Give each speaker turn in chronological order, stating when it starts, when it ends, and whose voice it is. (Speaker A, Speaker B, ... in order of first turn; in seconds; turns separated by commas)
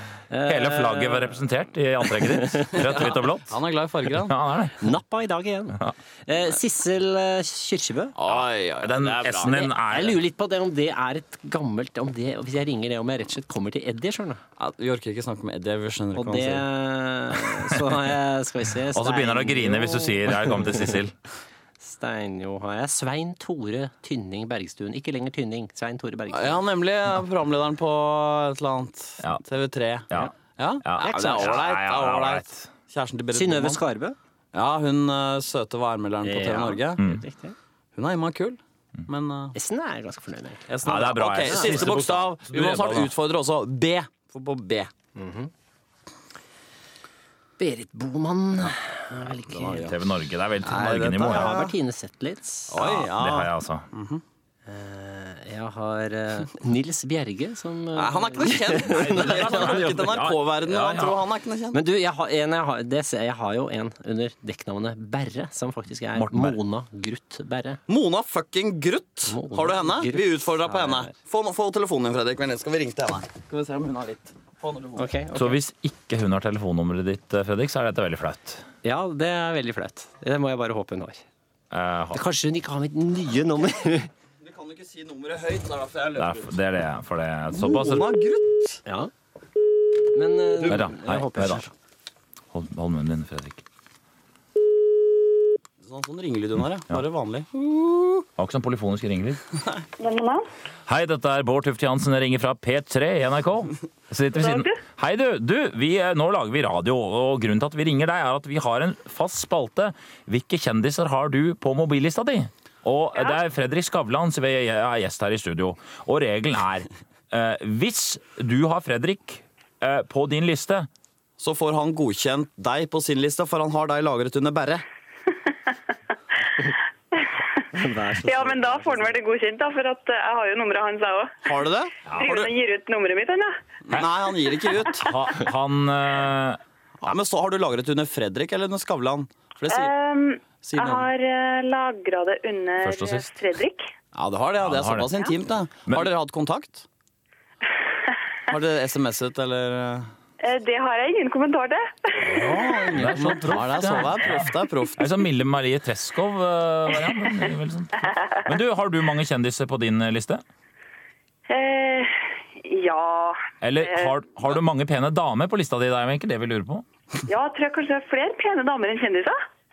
Speaker A: 0.3-1.4, Speaker B: 0.5-3.5, Speaker A: 2.1-3.1, Speaker C: 2.8-4.3, Speaker B: 4.2-4.9, Speaker A: 4.8-8.2, Speaker C: 8.2-9.7, Speaker B: 8.8-10.2, Speaker A: 9.4-14.4, Speaker C: 14.6-16.6, Speaker A: 16.1-21.0, Speaker B: 18.9-21.1, Speaker A: 21.8-26.6, Speaker C: 26.3-33.8, Speaker B: 30.1-32.7, Speaker A: 31.0-31.6, Speaker A: 33.3-34.2, Speaker C: 34.5-37.0, Speaker A: 36.2-37.5, Speaker B: 37.0-37.2, Speaker C: 37.9-39.5, Speaker A: 39.5-41.9, Speaker C: 40.7-44.9, Speaker B: 40.8-43.1, Speaker A: 45.1-45.5, Speaker A: 47.6-50.0, Speaker C: 49.5-50.0, Speaker B: 49.8-51.6, Speaker C: 50.6-51.7, Speaker A: 51.2-52.9, Speaker C: 52.7-54.2, Speaker B: 52.8-53.9, Speaker A: 54.6-60.2, Speaker C: 58.0-61.8, Speaker B: 58.6-61.2, Speaker A: 61.7-67.8, Speaker B: 66.1-66.6, Speaker C: 67.9-75.1, Speaker A: 69.3-71.1, Speaker A: 75.0-75.6, Speaker B: 75.3-78.6, Speaker A: 78.8-81.2, Speaker B: 81.7-82.2, Speaker A: 82.1-84.1, Speaker C: 84.4-86.5, Speaker B: 86.2-88.1, Speaker C: 87.5-88.8, Speaker A: 88.8-89.1, Speaker A: 90.1-91.7, Speaker B: 90.6-91.7, Speaker B: 92.5-93.6, Speaker C: 95.8-98.1, Speaker B: 98.4-99.4, Speaker D: 100.0-100.5, Speaker B: 100.9-120.9, Speaker D: 104.3-104.8, Speaker C: 121.4-124.8, Speaker D: 126.6-127.3, Speaker A: 127.7-129.2, Speaker D: 128.2-131.5, Speaker C: 131.4-132.5, Speaker B: 132.1-132.3, Speaker D: 132.1-133.6, Speaker C: 133.8-135.1, Speaker B: 135.0-136.6, Speaker C: 137.0-139.9, Speaker D: 139.7-143.9, Speaker C: 140.6-141.1, Speaker B: 142.8-143.4, Speaker C: 144.1-146.8, Speaker B: 144.6-145.1, Speaker C: 148.5-150.1, Speaker D: 150.4-152.9, Speaker C: 152.2-155.2, Speaker B: 152.9-160.4, Speaker D: 161.5-164.1, Speaker B: 163.6-166.8, Speaker D: 167.3-169.4